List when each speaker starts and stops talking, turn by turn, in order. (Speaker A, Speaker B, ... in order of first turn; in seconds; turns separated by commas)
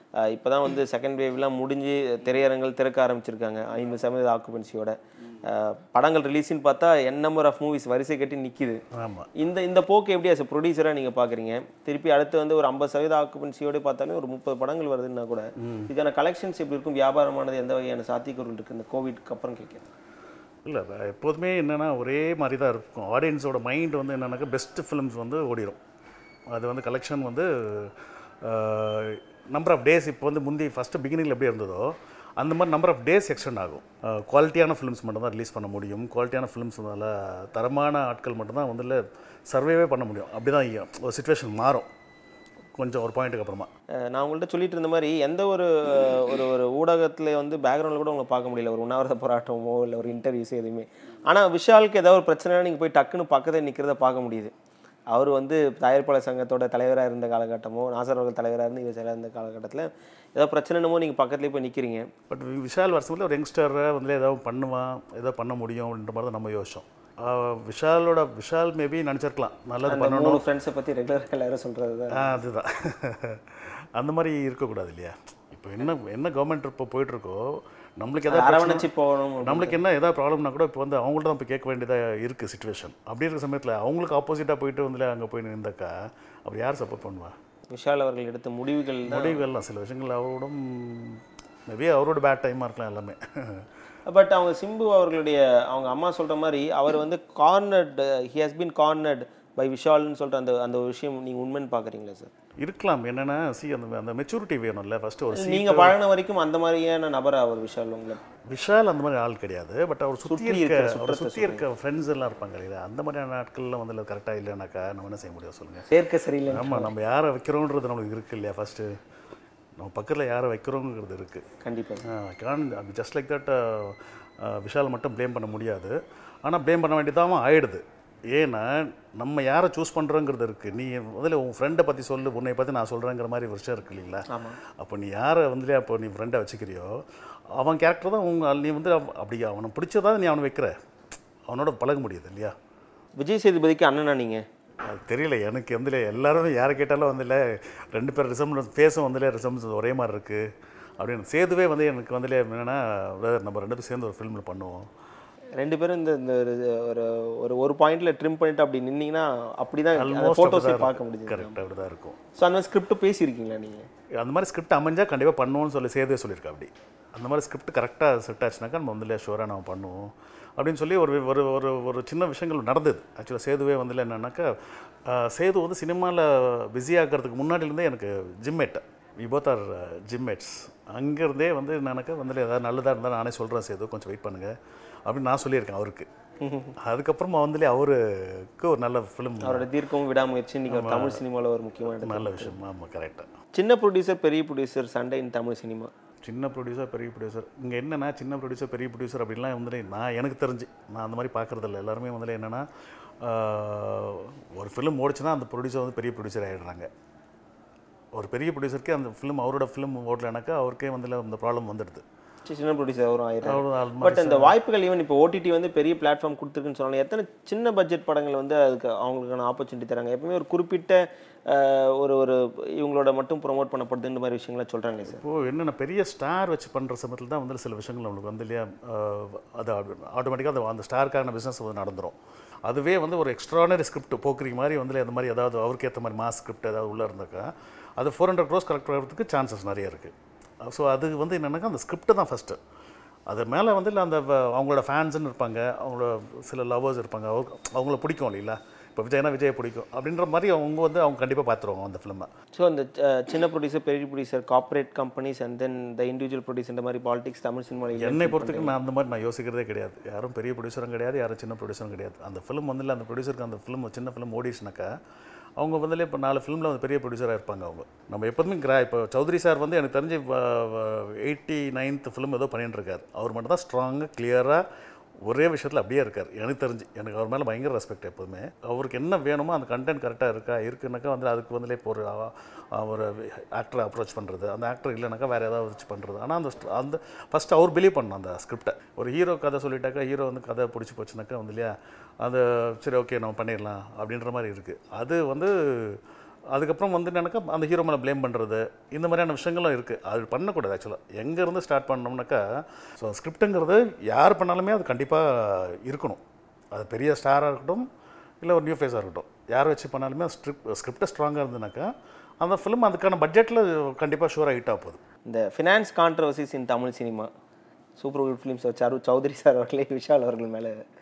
Speaker A: 0.2-8.8, Speaker B: 9.0-9.3, Speaker A: 9.4-19.9, Speaker B: 15.6-15.9, Speaker B: 20.6-25.8, Speaker B: 26.5-41.9, Speaker B: 42.8-43.7, Speaker A: 44.0-54.5, Speaker A: 55.1-62.1, Speaker B: 62.3-70.4, Speaker A: 69.9-72.3, Speaker B: 72.1-78.9, Speaker A: 78.3-79.8, Speaker B: 79.4-85.9, Speaker B: 86.5-87.3, Speaker A: 87.7-89.4, Speaker B: 89.1-93.6, Speaker A: 94.0-102.3, Speaker B: 102.6-106.0, Speaker A: 105.3-108.2, Speaker B: 108.5-115.9, Speaker A: 110.2-111.6, Speaker A: 115.9-116.9, Speaker B: 116.5-118.9, Speaker B: 119.8-121.4, Speaker A: 121.6-122.0, Speaker B: 122.1-127.8, Speaker B: 128.3-134.2, Speaker A: 134.3-134.6, Speaker B: 134.8-137.0, Speaker B: 137.6-140.7, Speaker B: 141.5-142.5, Speaker A: 143.2-144.4, Speaker B: 144.9-150.4, Speaker B: 151.0-154.9, Speaker A: 155.6-161.6, Speaker B: 159.9-162.2, Speaker A: 162.4-163.9, Speaker B: 164.2-174.5, Speaker B: 175.1-184.5, Speaker B: 185.1-186.1, Speaker A: 186.4-186.7, Speaker B: 186.8-189.7, Speaker A: 189.4-192.5, Speaker B: 190.7-191.2, Speaker B: 192.0-193.3, Speaker A: 193.5-195.9, Speaker B: 196.2-202.6, Speaker B: 203.2-206.9, Speaker B: 208.1-212.0, Speaker A: 212.5-225.2, Speaker B: 213.4-214.5, Speaker B: 225.1-232.2, Speaker B: 232.7-240.1, Speaker B: 240.6-242.6, Speaker B: 243.3-252.3, Speaker A: 252.5-258.7, Speaker B: 258.0-264.9, Speaker B: 265.6-274.6, Speaker B: 275.2-296.0, Speaker B: 296.5-302.4, Speaker B: 303.0-306.2, Speaker B: 306.7-307.9, Speaker B: 308.4-315.0, Speaker A: 315.3-317.3, Speaker A: 318.0-320.7